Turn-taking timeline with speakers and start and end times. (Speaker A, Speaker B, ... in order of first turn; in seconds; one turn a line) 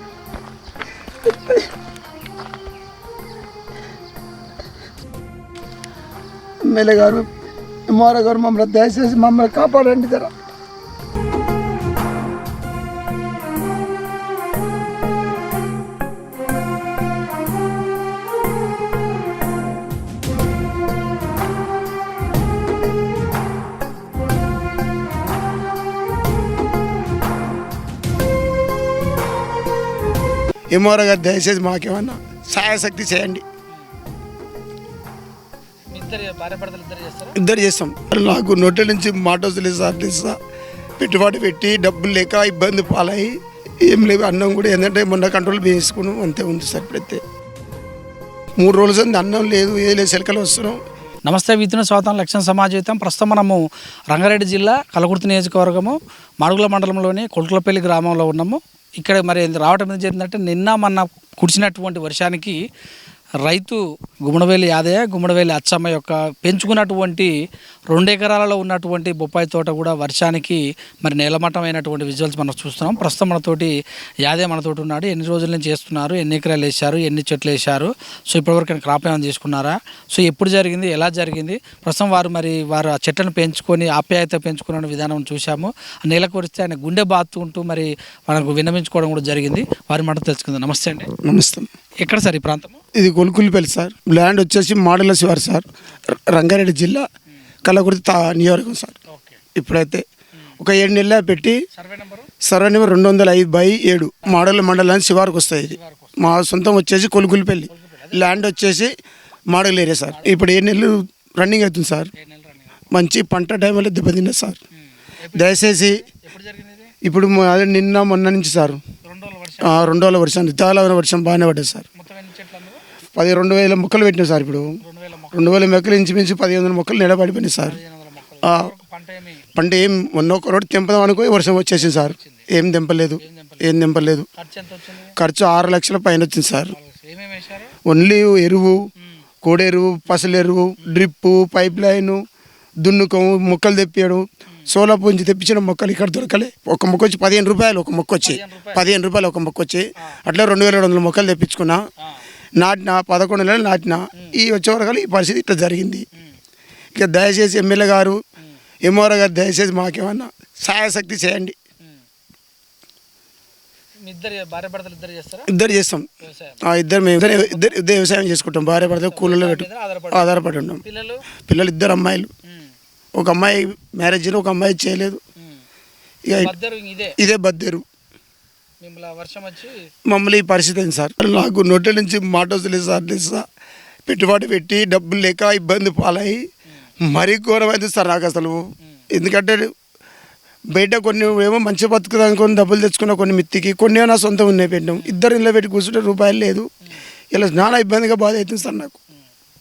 Speaker A: 1.2-1.6
Speaker A: 6.7-7.2
Speaker A: 7.9-10.3
Speaker A: 30.7-33.4
Speaker B: 35.9-37.4
Speaker A: 37.4-40.4
Speaker A: 41.0-47.2
Speaker A: 48.6-50.8
Speaker B: 51.2-62.6
Speaker B: 63.4-67.3
Speaker B: 67.9-91.1
Speaker A: 91.2-91.7
Speaker B: 92.0-92.8
Speaker A: 92.9-97.0
Speaker A: 97.6-98.9
Speaker B: 99.1-99.4
Speaker A: 99.5-100.0
Speaker A: 100.6-101.6
Speaker B: 101.7-102.3
Speaker A: 102.4-108.9
Speaker B: 104.2-104.5
Speaker B: 105.7-106.2
Speaker B: 107.7-108.3
Speaker A: 109.5-112.1
Speaker B: 110.1-110.4
Speaker B: 112.1-112.9
Speaker A: 112.9-114.6
Speaker B: 115.0-116.9
Speaker A: 115.3-116.0
Speaker A: 117.0-118.8
Speaker B: 119.0-119.9
Speaker A: 119.6-121.8
Speaker B: 121.9-122.8
Speaker A: 123.1-124.7
Speaker B: 124.8-125.6
Speaker A: 125.3-127.8
Speaker B: 127.6-129.4
Speaker A: 128.4-128.7
Speaker A: 129.5-134.3
Speaker B: 131.8-132.5
Speaker B: 133.2-133.7
Speaker B: 134.4-135.1
Speaker A: 135.2-136.7
Speaker B: 136.7-137.7
Speaker A: 137.8-138.8
Speaker A: 139.4-142.2
Speaker A: 142.8-151.8
Speaker B: 148.2-148.8
Speaker A: 152.6-156.0
Speaker A: 156.9-158.2
Speaker A: 158.8-161.6
Speaker B: 164.1-165.5
Speaker A: 165.5-166.1
Speaker B: 166.2-166.6
Speaker A: 166.7-170.8
Speaker B: 167.2-167.8
Speaker B: 168.8-171.3
Speaker A: 171.4-172.3
Speaker B: 172.5-172.7
Speaker A: 173.1-175.2
Speaker B: 175.4-175.6
Speaker A: 176.2-176.5
Speaker B: 176.4-177.2
Speaker A: 177.2-177.8
Speaker B: 178.8-179.7
Speaker A: 180.1-183.4
Speaker A: 184.1-186.4
Speaker A: 187.0-188.6
Speaker A: 189.1-189.7
Speaker A: 190.7-196.7
Speaker A: 197.3-199.0